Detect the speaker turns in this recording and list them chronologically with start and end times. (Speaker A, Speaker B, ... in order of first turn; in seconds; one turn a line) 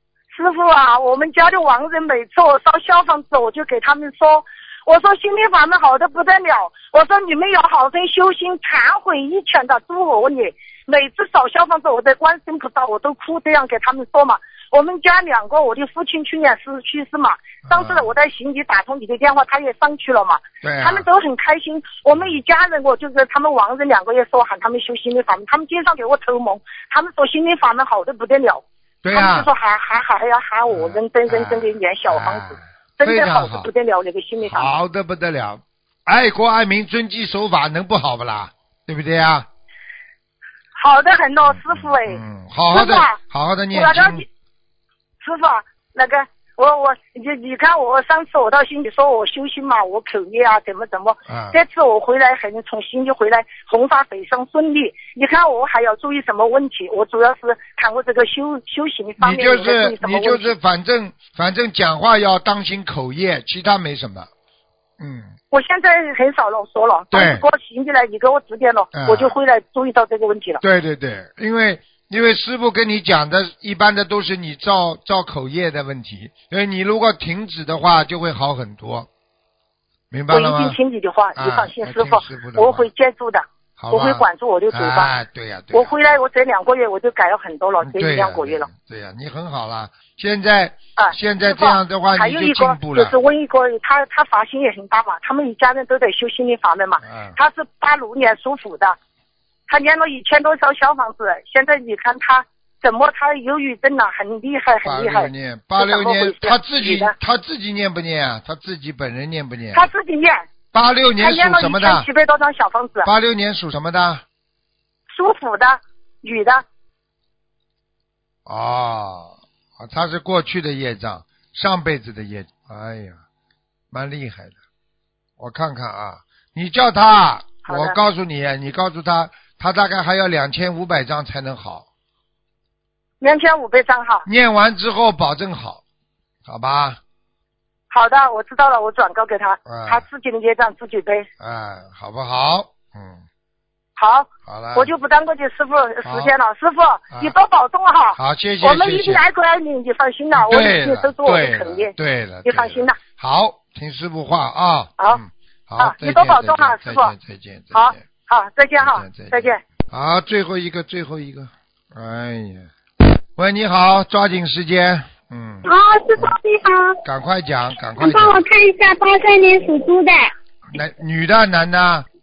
Speaker A: 0.3-34.7
Speaker B: 17.7-18.1
Speaker B: 20.6-21.1
Speaker B: 29.0-29.5
Speaker B: 30.7-33.7
Speaker B: 34.4-39.5
Speaker A: 40.8-43.2
Speaker B: 41.4-44.2
Speaker A: 43.7-44.2
Speaker A: 45.2-60.5
Speaker B: 51.3-51.6
Speaker B: 59.2-64.3
Speaker B: 65.0-65.3
Speaker A: 65.5-70.6
Speaker B: 67.1-67.4
Speaker B: 68.9-69.3
Speaker B: 70.6-79.1
Speaker B: 80.1-80.8
Speaker A: 80.3-85.1
Speaker B: 81.3-82.9
Speaker B: 83.8-86.2
Speaker A: 85.7-88.7
Speaker B: 87.8-93.2
Speaker A: 91.0-99.0
Speaker B: 97.0-97.4
Speaker A: 99.7-107.1
Speaker B: 104.8-109.9
Speaker A: 109.7-110.5
Speaker B: 110.7-112.1
Speaker A: 111.2-113.1
Speaker B: 113.0-114.2
Speaker A: 115.1-116.6
Speaker B: 118.5-123.2
Speaker B: 123.9-124.5
Speaker B: 125.4-131.8
Speaker A: 127.6-128.0
Speaker A: 133.2-134.2
Speaker B: 134.2-135.8
Speaker B: 136.4-137.0
Speaker A: 137.9-141.2
Speaker B: 139.7-140.0
Speaker B: 141.4-143.2
Speaker A: 144.0-151.9
Speaker B: 144.4-144.9
Speaker B: 146.0-146.3
Speaker B: 148.2-149.2
Speaker B: 150.3-158.0
Speaker A: 152.4-153.0
Speaker A: 155.8-157.1
Speaker A: 157.7-159.6
Speaker B: 158.8-162.7
Speaker B: 163.3-166.3
Speaker C: 165.6-167.0
Speaker B: 167.0-168.4
Speaker C: 168.0-170.3
Speaker B: 170.7-172.1